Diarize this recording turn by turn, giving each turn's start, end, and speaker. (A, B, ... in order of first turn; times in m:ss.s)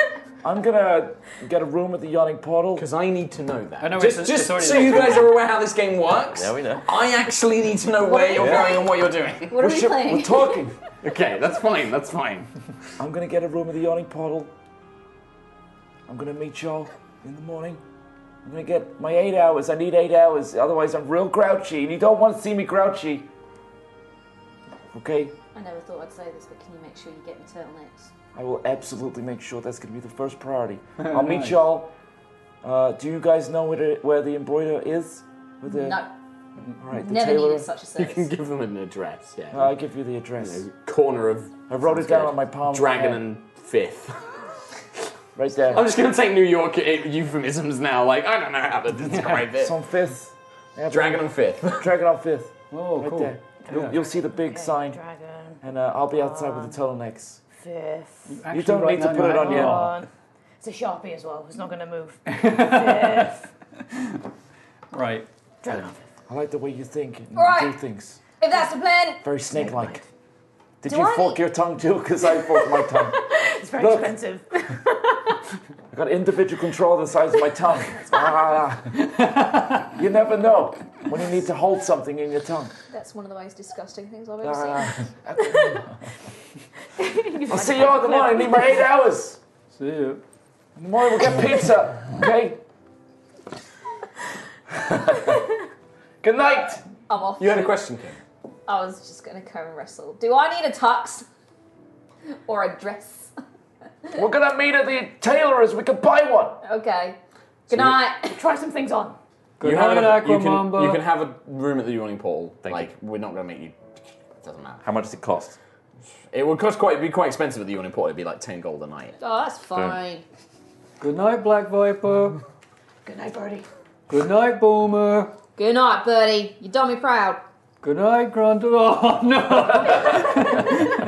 0:00.4-0:02.9 A
0:02.8-0:09.6 B
0:03.8-0:05.4 C
0:06.3-0:06.9 D
0:08.0-0:08.9 E
0:08.4-0:08.7 D
0:09.5-0:10.7 E
0:09.6-0:10.8 A
0:11.0-0:12.5 B
0:13.0-0:14.5 A
0:16.1-0:17.8 A
0:18.4-0:23.3 A
0:24.9-0:25.4 A
0:25.5-0:28.1 E
0:28.3-0:31.9 A
0:31.0-0:31.6 C
0:32.6-0:36.0 A
0:35.7-0:36.1 E
0:36.8-0:37.7 A
0:36.9-0:38.3 E
0:38.0-0:39.8 B
0:39.5-0:40.6 A
0:40.4-0:44.3 B
0:41.7-0:43.2 A
0:45.3-0:45.9 A
0:45.7-0:49.7 B
0:49.0-0:49.5 C
0:49.5-0:55.0 A
0:50.9-0:51.9 B
0:52.7-0:54.0 C
0:53.6-0:56.8 F
0:55.6-0:57.4 A
0:57.5-0:58.4 F
0:58.3-0:59.9 C
0:58.5-0:59.9 A
0:59.2-1:00.1 F
1:00.6-1:03.5 F
1:02.3-1:03.3 C
1:04.9-1:05.3 C
1:05.6-1:06.0 F
1:06.3-1:08.2 A
1:07.3-1:07.8 E
1:08.4-1:09.2 E
1:09.2-1:10.0 A
1:09.5-1:10.0 F
1:10.8-1:14.2 A
1:10.8-1:11.4 E
1:12.6-1:15.3 F
1:15.9-1:19.0 A
1:17.9-1:18.4 F
1:19.0-1:19.8 C
1:19.9-1:22.7 A
1:22.9-1:25.8 E
1:24.4-1:26.0 A
1:27.0-1:28.9 F
1:27.5-1:29.4 A
1:29.7-1:30.2 C
1:30.8-1:32.6 A
1:34.7-1:35.4 A
1:36.2-1:36.8 A
1:37.1-1:37.8 E
1:37.4-1:38.2 B
1:38.7-1:41.2 E
1:42.4-1:43.3 E
1:44.1-1:46.6 A
1:46.6-1:47.2 E
1:47.7-1:48.4 E
1:47.7-1:48.0 B
1:48.3-1:49.2 F
1:49.6-1:51.0 C
1:49.6-1:53.8 B
1:52.6-1:52.9 D
1:54.4-1:54.8 B
1:54.8-1:55.6 D
1:56.3-1:59.2 B
1:59.2-2:00.2 E
2:01.0-2:02.4 C
2:03.0-2:03.6 F
2:04.1-2:05.3 C
2:05.6-2:07.4 E
2:07.8-2:10.9 C